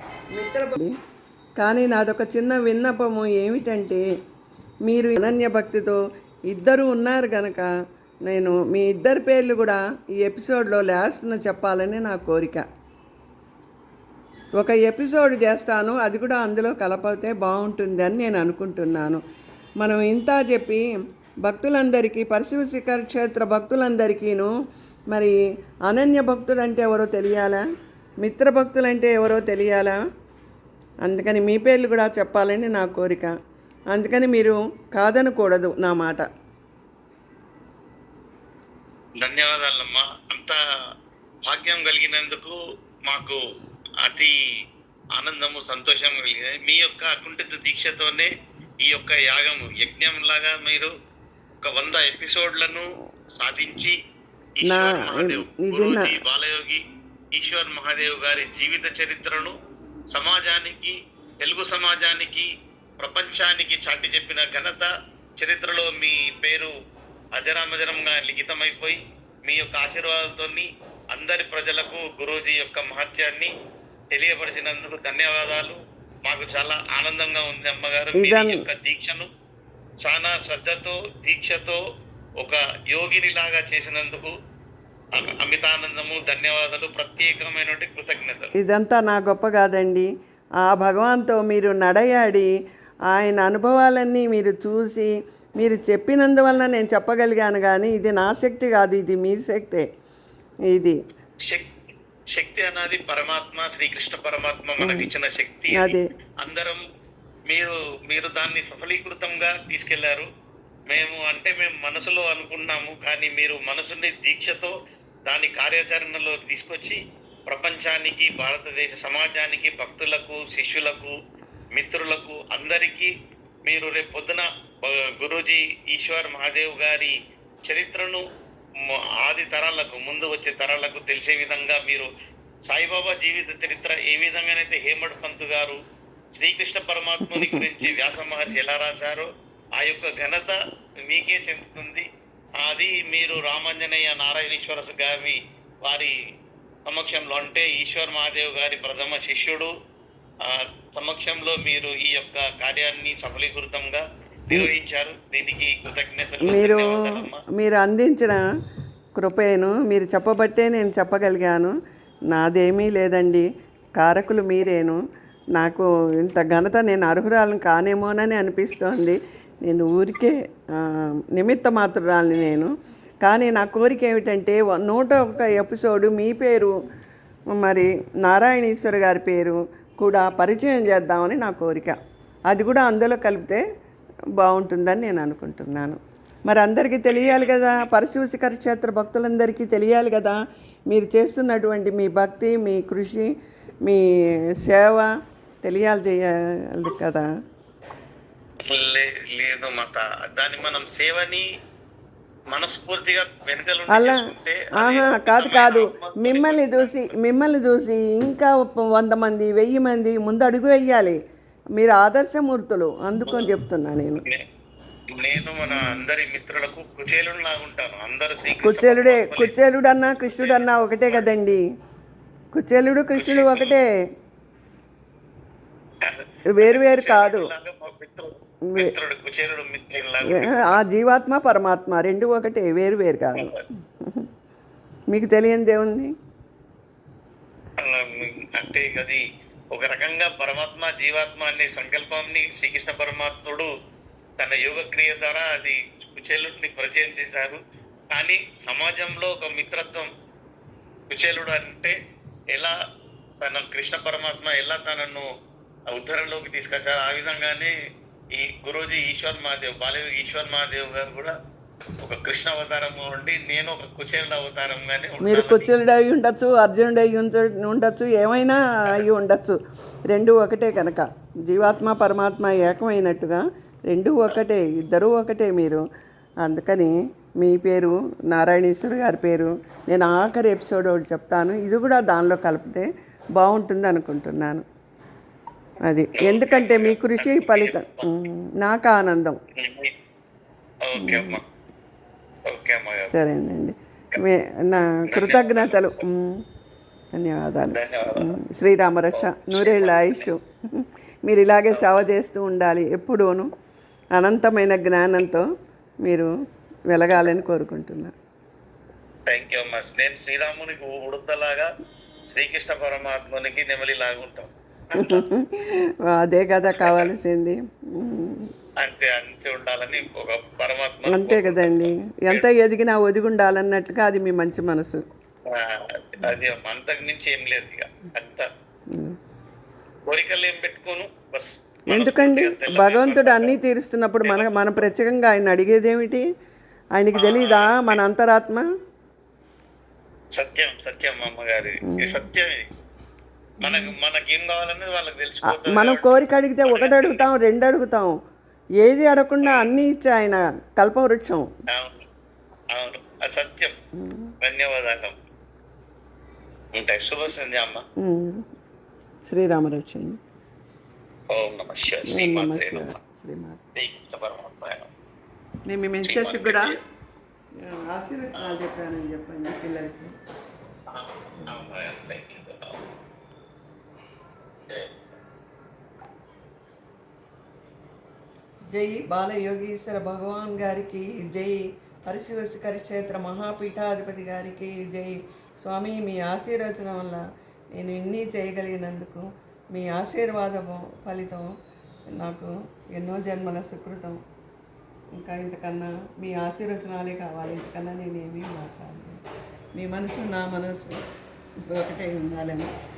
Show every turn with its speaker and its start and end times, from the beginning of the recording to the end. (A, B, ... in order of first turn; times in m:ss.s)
0:00.3-0:00.9 A
0:01.6-0:04.0 A
0:04.8-0:06.0 A
0:06.5-0:07.7 A
0:08.3-0:12.6 A
0:14.6-0:19.2 A
0:19.8-0:20.8 A
0:21.4-0:24.5 A
0:25.9-0:27.6 A
0:28.2-0:30.0 A
0:31.0-0:33.3 A
0:33.9-0:36.2 A
0:39.2-0:40.6 B
0:41.5-0:43.4 B
0:44.0-0:44.4 B
0:45.2-0:48.3 B
0:48.8-0:50.9 B
0:51.6-0:54.0 B
0:54.6-0:56.8 B
0:54.6-0:56.1 A
0:57.3-0:59.6 B
1:00.1-1:02.5 B
1:03.0-1:06.7 B
1:07.4-1:13.5 B
1:14.1-1:19.3 B
1:18.2-1:18.6 A
1:20.0-1:21.8 B
1:22.4-1:24.3 B
1:25.2-1:28.5 B
1:28.6-1:30.1 A
1:30.6-1:32.5 A
1:33.1-1:39.8 A
1:40.7-1:41.0 A
1:42.3-1:46.8 B
1:44.8-1:45.1 A
1:45.7-1:46.0 A
1:47.5-1:50.3 B
1:50.9-1:54.7 B
1:55.3-2:01.1 B
2:01.7-2:03.1 B
2:03.6-2:07.1 B
2:07.6-2:08.2 B
2:08.8-2:12.1 B
2:12.7-2:15.8 B
2:16.4-2:19.3 B
2:17.2-2:17.7 A
2:19.8-2:22.0 B
2:22.6-2:26.1 B
2:26.9-2:29.7 B
2:30.4-2:37.4 B
2:36.4-2:38.4 A
2:39.2-2:41.7 A
2:42.3-2:43.4 A
2:44.0-2:45.0 A
2:45.6-2:52.7 A
2:53.2-2:56.7 A
2:57.6-3:02.0 A
3:02.5-3:03.6 A
3:04.4-3:10.4 A
3:07.1-3:07.9 B
3:10.9-3:13.3 A
3:14.6-3:15.1 A
3:15.6-3:17.2 A
3:18.6-3:21.4 B
3:22.5-3:27.1 B
3:23.9-3:24.2 A
3:24.8-3:31.2 A
3:31.8-3:34.2 A
3:33.2-3:33.5 B
3:35.1-3:39.5 B
3:38.6-3:41.6 A
3:40.2-3:41.2 B
3:42.5-3:43.9 A
3:43.1-3:43.8 B
3:46.0-3:50.8 B
3:46.5-3:47.5 A
3:50.3-3:54.2 A
3:53.4-3:53.6 B
3:55.1-3:56.1 A
3:57.8-4:03.7 B
4:04.4-4:07.6 B
4:08.1-4:10.1 B
4:11.1-4:11.9 B
4:13.4-4:15.2 B
4:15.9-4:17.7 B
4:18.3-4:21.3 B
4:22.0-4:25.7 B
4:25.2-4:29.6 A
4:30.1-4:35.8 A
4:36.4-4:42.8 A
4:43.4-4:44.6 A
4:45.9-4:49.4 A
4:46.1-4:48.1 B
4:49.6-4:49.9 B
4:50.8-4:51.4 B
4:51.0-4:51.4 A
4:52.5-4:53.1 B
4:53.1-4:56.4 A
4:55.1-4:56.0 B
4:57.1-5:03.5 A
4:57.7-4:58.3 B
4:59.1-5:00.3 B
5:01.7-5:02.0 B
5:04.2-5:05.4 A
5:06.0-5:06.3 A
5:06.9-5:08.1 A
5:09.3-5:11.7 B
5:12.3-5:15.2 B
5:15.0-5:18.5 A
5:16.7-5:17.1 B
5:18.8-5:22.5 B
5:21.0-5:25.0 A
5:25.5-5:28.4 B
5:30.1-5:33.6 B
5:31.9-5:36.2 A
5:34.2-5:34.8 B
5:37.0-5:38.6 A
5:37.1-5:38.0 B
5:40.3-5:42.5 B
5:41.9-5:42.2 A
5:43.6-5:47.2 B
5:43.6-5:43.9 A
5:45.4-5:48.1 A
5:48.8-5:51.4 A
5:49.4-5:49.7 B
5:51.7-5:52.0 B
5:52.7-5:53.7 B
5:54.0-5:54.3 A
5:54.4-5:55.1 B
5:56.7-5:57.8 B
5:58.0-5:58.4 A
5:59.3-6:00.2 A
6:01.3-6:03.0 B
6:02.1-6:03.6 A
6:03.7-6:04.9 B
6:05.6-6:06.8 A
6:06.0-6:06.8 B
6:07.6-6:10.1 A
6:10.9-6:12.8 B
6:11.4-6:11.8 A
6:18.7-6:27.2 A
6:27.8-6:31.5 A
6:32.2-6:34.2 A
6:35.2-6:39.2 A
6:39.8-6:41.0 A
6:41.6-6:42.7 A